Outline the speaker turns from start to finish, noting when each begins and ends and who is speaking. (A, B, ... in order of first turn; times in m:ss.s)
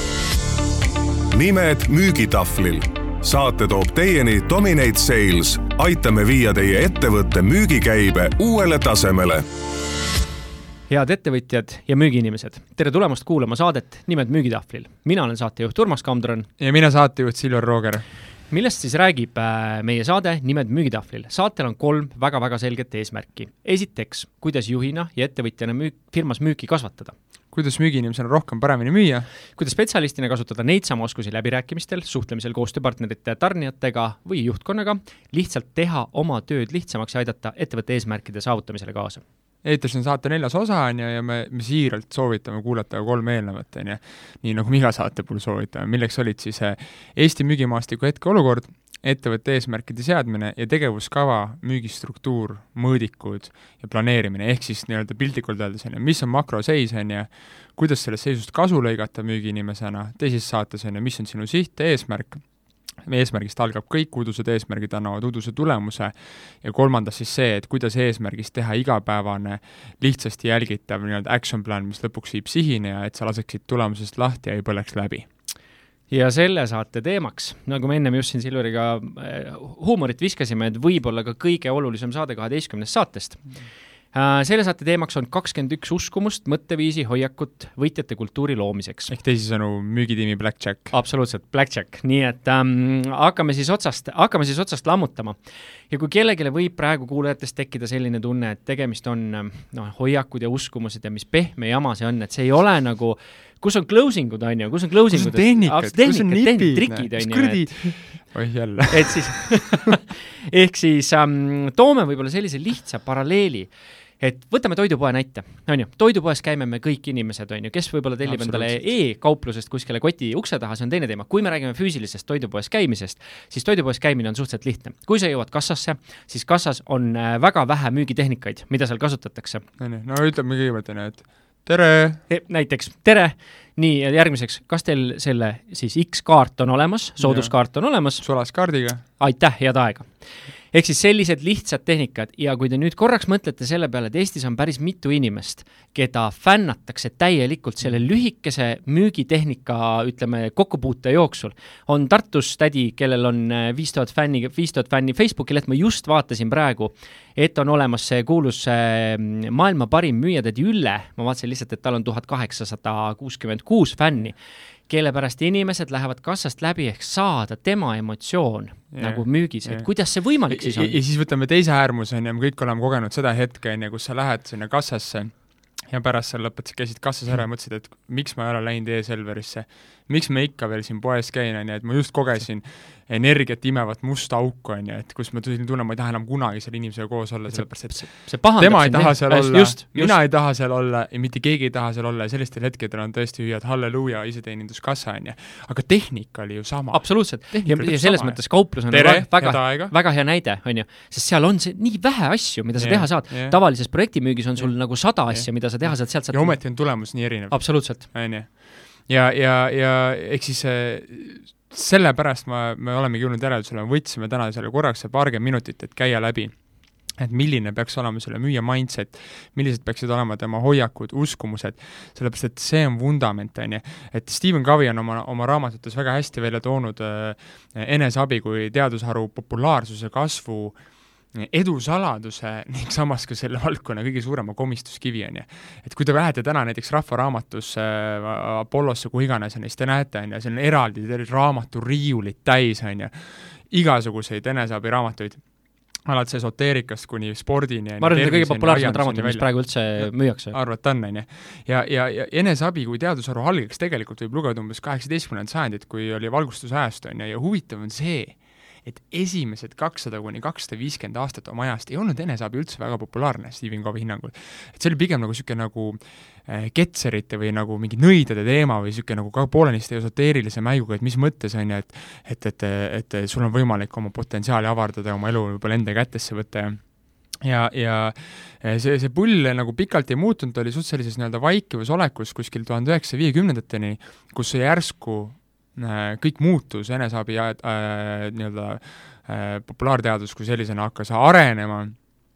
0:01.3-0:09.4 A
0:10.9-0:16.5 B
0:16.6-0:18.0 C
0:18.5-0:27.1 B
0:27.5-0:29.3 C
0:29.5-0:39.2 B
0:39.6-1:15.3 C
1:16.1-1:29.1 B
1:29.1-1:30.9 C
1:30.9-1:35.4 B
1:35.9-1:48.3 B
1:45.1-1:49.7 C
1:48.9-2:09.6 B
1:58.2-1:58.9 C
2:09.8-2:12.2 C
2:12.3-2:18.5 B
2:17.2-2:19.0 C
2:19.0-2:51.0 B
2:48.9-3:19.9 C
3:07.5-3:10.2 B
3:16.9-3:28.0 B
3:22.8-3:23.8 C
3:24.6-4:52.1 C
4:08.0-4:10.6 B